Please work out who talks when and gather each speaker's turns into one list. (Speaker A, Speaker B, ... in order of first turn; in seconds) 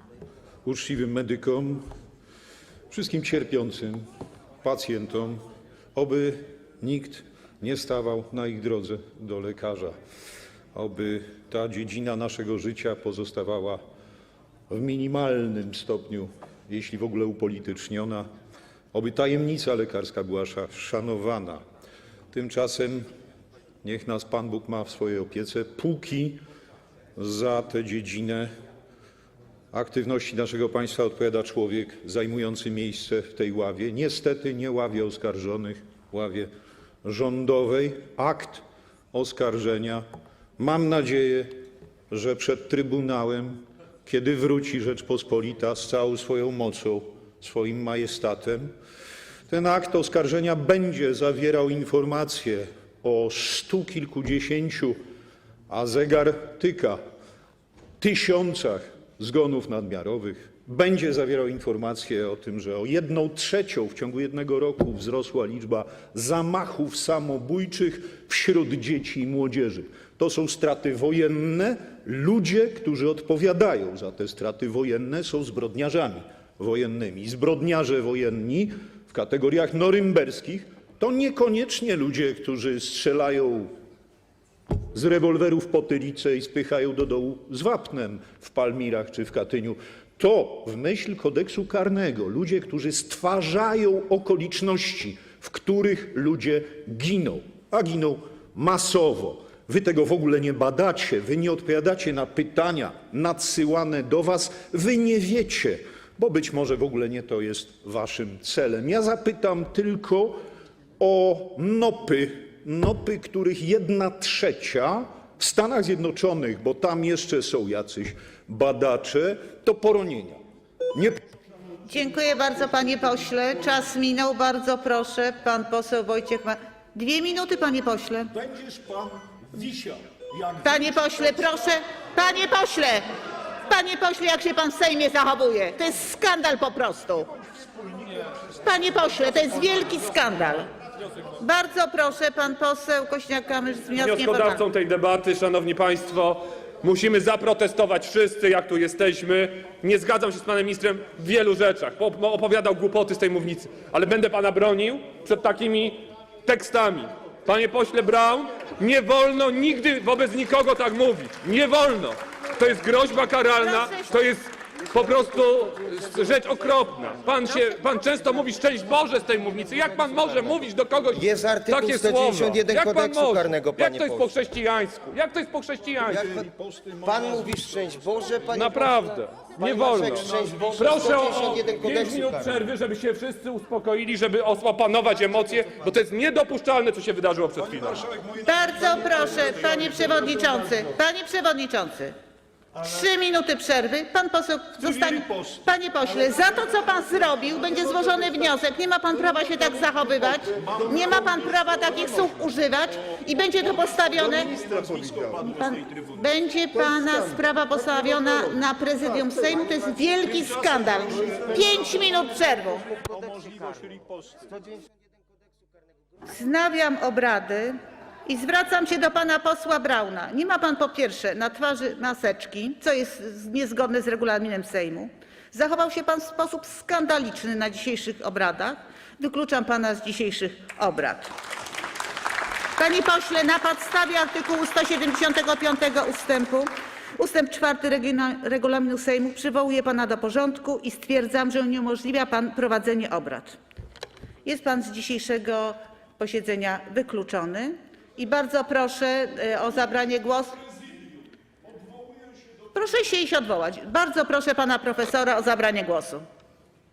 Speaker A: 0.6-1.9, 2.9-4.0, 4.6-5.4, 5.9-9.9, 10.7-13.8, 14.7-18.3, 18.9-21.6, 22.3-23.1, 23.8-26.4, 27.1-28.5, 29.7-36.5, 37.0-40.0, 40.6-41.5, 42.1-48.7, 49.5-55.0, 55.7-57.0, 58.0-83.7, 84.9-110.4, 111.0-120.4, 120.9-121.2, 128.3-131.7, 137.3-138.7, 176.1-177.6, 180.2-180.6, 187.6-190.5, 194.8-195.7, 200.6-201.9, 204.1-206.2, 210.2-214.6
Speaker B: 121.9-128.3, 130.6-133.0, 133.7-137.3, 138.6-140.7, 141.4-144.6, 163.6-164.2, 188.4-192.1, 192.8-204.5, 205.4-212.9, 216.3-231.3, 232.8-243.6, 244.4-250.7, 252.7-256.2
Speaker C: 144.0-176.3, 178.5-188.0
Speaker D: 171.1-174.3, 176.0-176.5, 177.0-182.7, 214.6-215.0